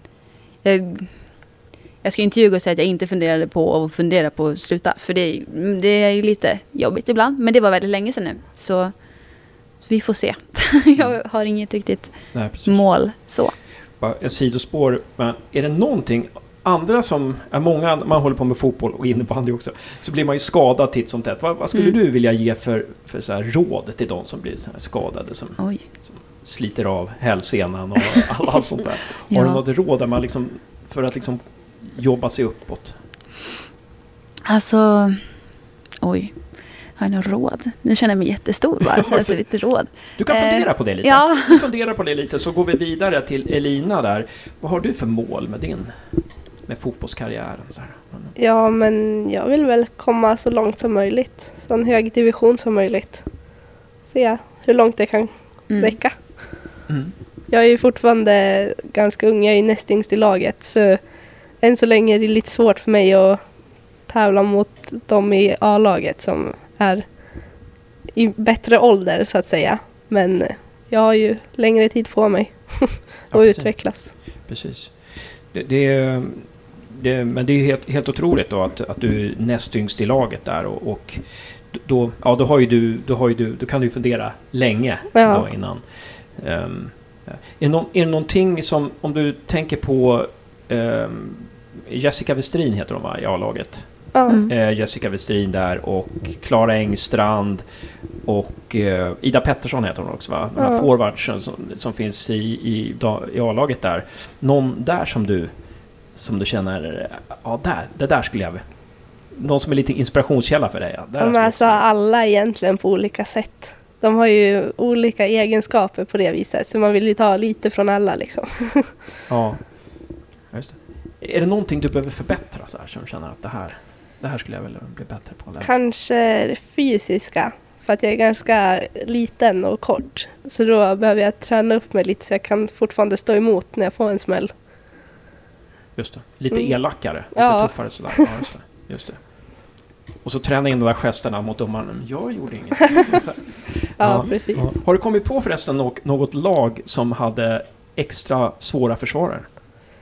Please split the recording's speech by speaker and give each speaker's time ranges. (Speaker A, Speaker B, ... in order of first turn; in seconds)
Speaker A: 0.6-13.6, 25.6-25.8, 29.3-29.6, 34.5-41.6, 55.7-56.0, 94.3-94.5
Speaker B: 12.3-33.0, 39.0-48.4, 56.9-57.1, 73.3-111.9, 119.3-125.7, 135.9-149.5
Speaker C: 48.4-56.1, 57.5-74.1, 85.1-85.5, 94.1-94.4, 100.6-100.8, 111.2-119.0, 125.6-134.5, 136.5-138.1, 144.0-144.8